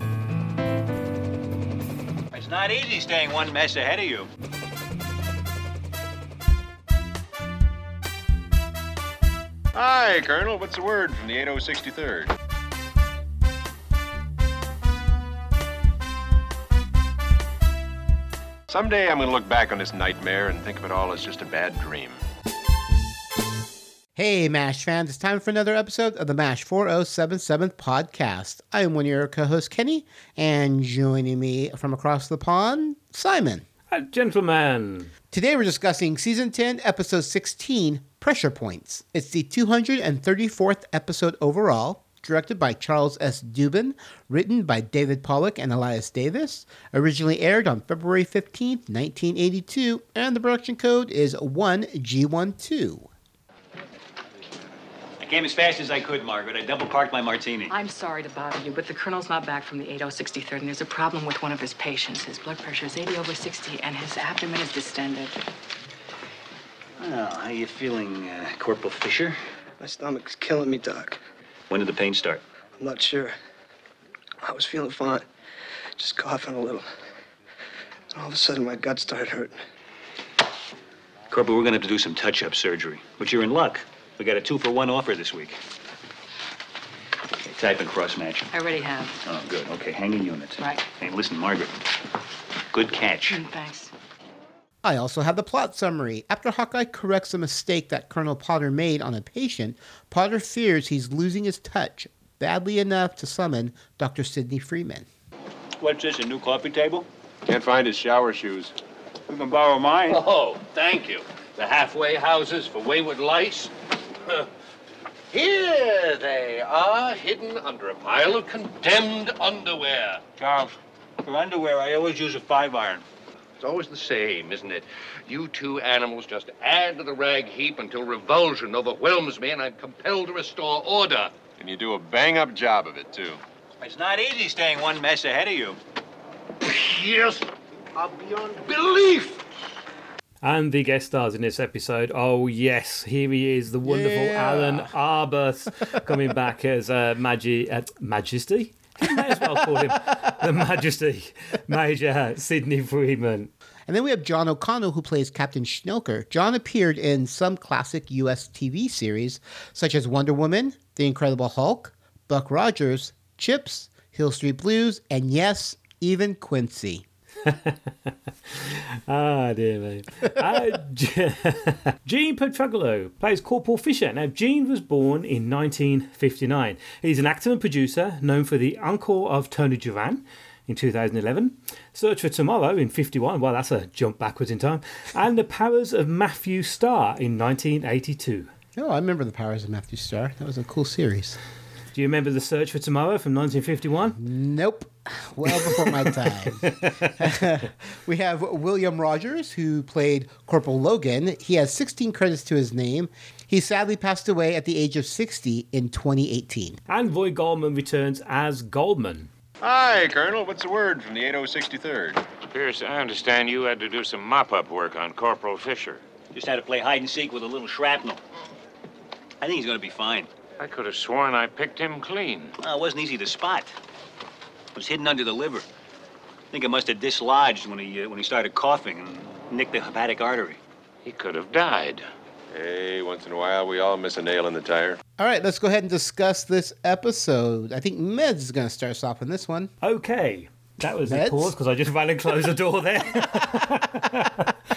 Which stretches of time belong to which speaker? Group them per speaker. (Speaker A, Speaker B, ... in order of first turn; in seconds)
Speaker A: 2.3-4.3, 55.2-57.7, 67.0-69.4, 71.7-72.4, 81.3-85.6, 87.4-88.5, 89.2-91.8, 92.7-93.4, 105.8-107.1, 109.3-110.2, 121.2-123.0, 133.8-135.8, 216.3-218.2, 219.4-220.3, 222.6-223.7, 224.7-225.7, 226.5-230.6
Speaker B: 9.7-12.3, 18.7-22.2, 107.5-108.7, 131.6-133.4, 209.6-212.2, 232.5-235.0
Speaker C: 24.1-33.6, 35.3-53.1, 94.8-105.1, 143.8-144.9, 149.3-149.9, 153.9-167.1, 188.8-191.4, 194.2-206.8, 235.2-239.7, 241.0-241.5
Speaker D: 33.9-35.1, 140.4-153.5, 167.4-167.8, 168.5-188.5, 191.9-194.2, 195.5-196.1, 196.6-197.1, 206.9-209.3, 239.8-244.5
Speaker E: 57.7-65.4, 88.5-89.2, 90.6-90.8, 93.3-93.9
Speaker F: 69.8-71.2, 72.8-73.3, 74.4-75.2, 76.0-76.9, 78.1-79.6
Speaker G: 110.1-113.7, 115.3-120.8, 123.6-131.3, 136.6-139.4
Speaker H: 212.5-216.0, 220.6-222.5, 231.0-232.0